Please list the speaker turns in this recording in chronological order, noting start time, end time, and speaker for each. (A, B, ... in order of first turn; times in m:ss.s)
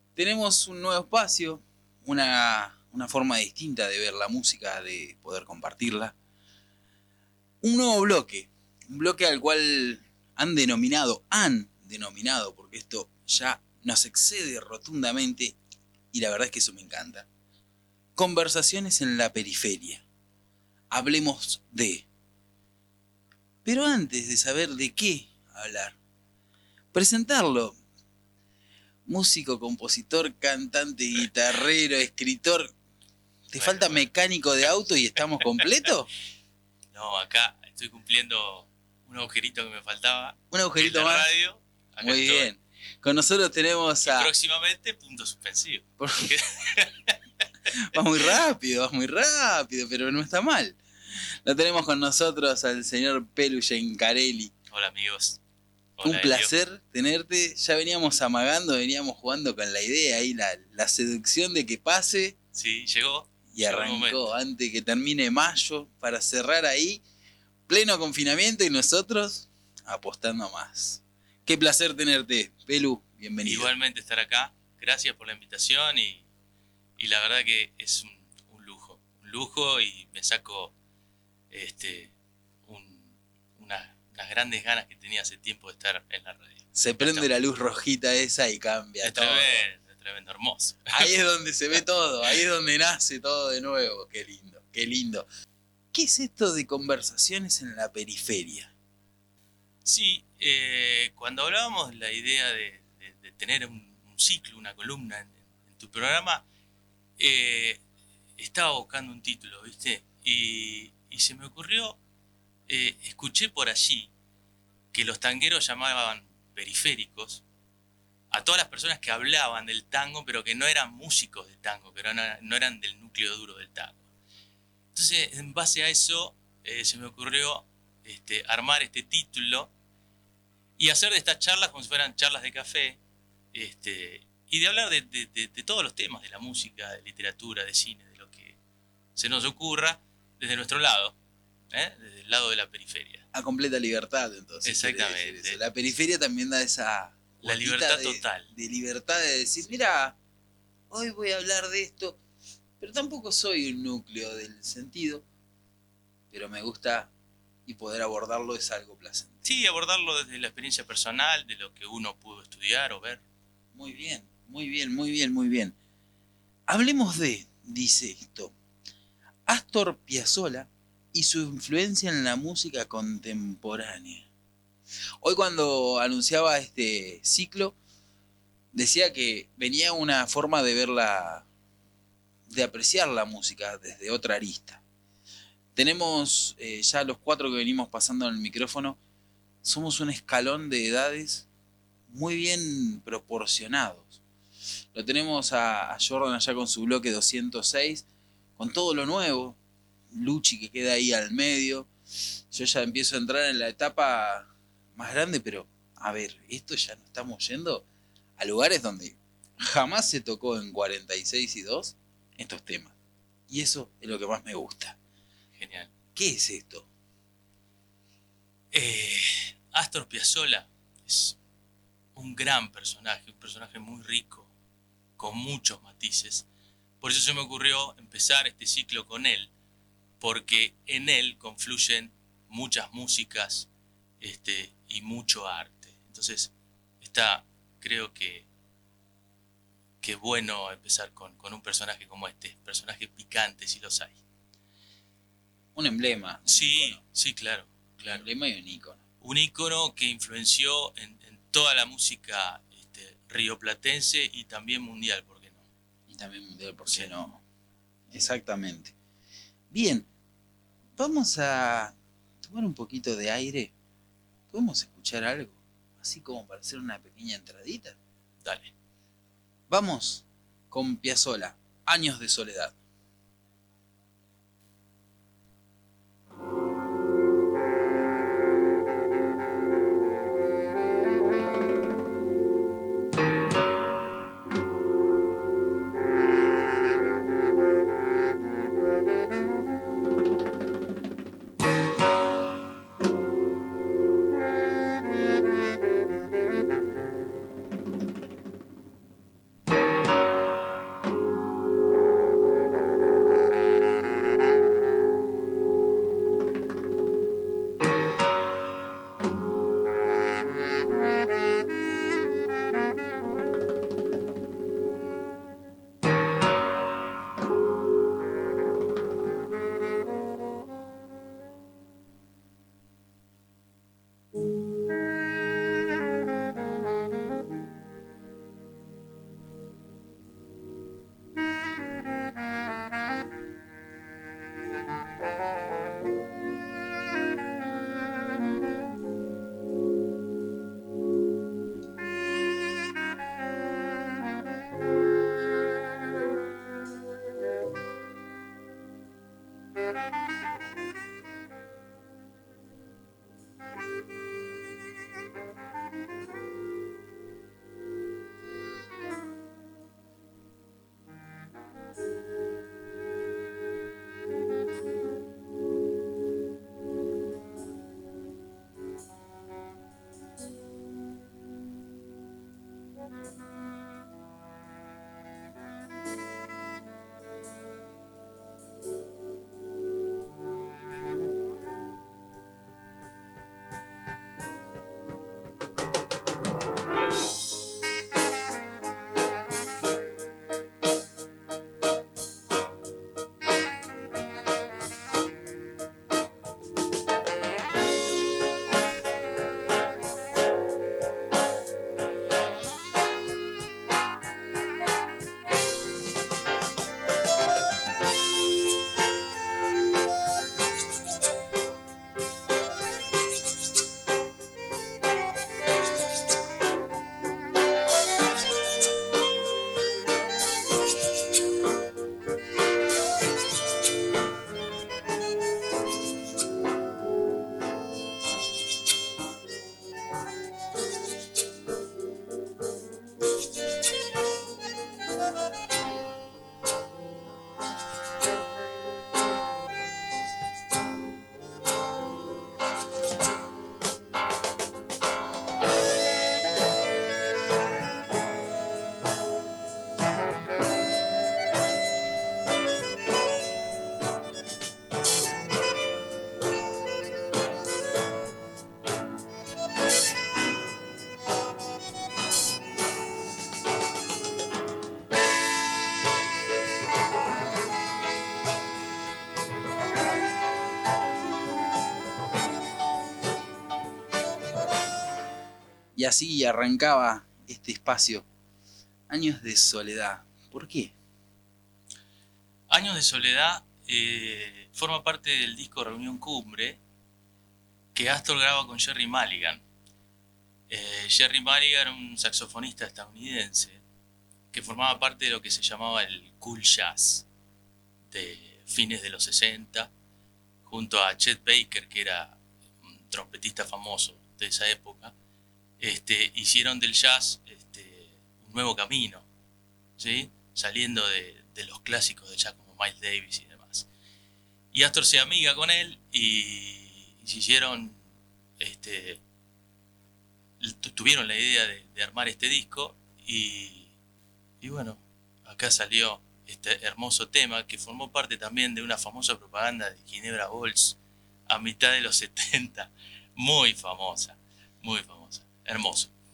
0:00.2-0:06.1 A
0:07.6-0:15.6 A
0:16.1-0:17.3 A
0:18.2-0:20.0 A
0:20.9-0:22.1 A
0:23.6-0:26.0 A
0:26.9-0:27.8 A
0:29.1-0:32.7 A
0:33.5-0:36.1 A
0:33.6-0:34.1 B
0:36.9-0:42.5 B
0:40.5-0:41.3 A
0:42.0-0:44.3 A
0:44.0-0:47.2 B
0:46.0-0:46.3 A
0:47.8-0:54.5 A
0:47.9-0:48.4 B
0:54.7-0:55.4 B
0:56.0-0:56.5 B
0:56.0-1:02.4 A
1:02.5-1:04.3 B
1:03.5-1:07.0 A
1:07.7-1:13.7 A
1:13.4-1:16.2 B
1:17.0-1:20.7 B
1:21.5-1:22.1 B
1:22.6-1:27.3 B
1:26.7-1:29.6 A
1:29.0-1:31.1 B
1:30.9-1:35.2 A
1:35.9-1:38.7 A
1:39.8-1:46.4 B
1:47.2-1:47.8 B
1:48.4-1:52.0 B
1:52.7-1:54.1 B
1:54.9-1:57.4 B
1:58.3-2:04.0 B
2:04.9-2:09.7 B
2:10.8-2:13.0 B
2:13.5-2:18.6 B
2:19.2-2:21.2 B
2:21.7-2:23.2 B
2:23.3-2:30.2 A
2:24.6-2:25.6 B
2:27.4-2:28.5 B
2:30.9-2:32.2 A
2:32.8-2:35.2 A
2:36.3-2:37.1 A
2:37.6-2:39.6 A
2:39.4-2:43.2 B
2:43.7-2:45.8 A
2:46.7-2:48.5 A
2:49.5-2:54.3 A
2:55.2-2:57.8 A
2:58.7-3:01.5 A
3:02.5-3:04.8 A
3:05.7-3:09.0 A
3:09.6-3:11.5 A
3:12.1-3:14.2 A
3:14.9-3:18.0 A
3:18.6-3:19.6 A
3:20.1-3:21.9 A
3:22.5-3:27.8 A
3:28.4-3:32.9 A
3:33.5-3:35.0 A
3:35.6-3:35.9 B
3:36.1-3:36.9 A
3:38.7-3:41.4 B
3:42.1-3:44.5 B
3:45.2-3:46.4 B
3:47.0-3:49.5 B
3:50.2-3:53.7 B
3:54.2-3:58.5 B
4:00.0-4:04.2 B
4:05.7-4:07.0 A
4:06.5-4:08.2 B
4:08.0-4:09.0 A
4:09.2-4:15.6 B
4:16.1-4:17.4 A
4:18.1-4:18.9 A
4:19.7-4:20.1 A
4:21.0-4:23.7 A
4:24.5-4:28.0 A
4:28.4-4:28.7 B
4:29.7-4:32.8 A
7:56.0-7:58.3 A
7:59.1-8:00.9 A
8:02.7-8:06.8 B
8:07.9-8:09.6 B
8:10.7-8:13.8 B
8:14.5-8:17.2 B
8:18.1-8:19.9 B
8:20.6-8:25.1 B
8:25.8-8:29.2 B
8:30.0-8:33.9 B
8:34.7-8:38.0 B
8:38.6-8:39.2 B
8:40.6-8:43.9 B
8:44.6-8:56.1 B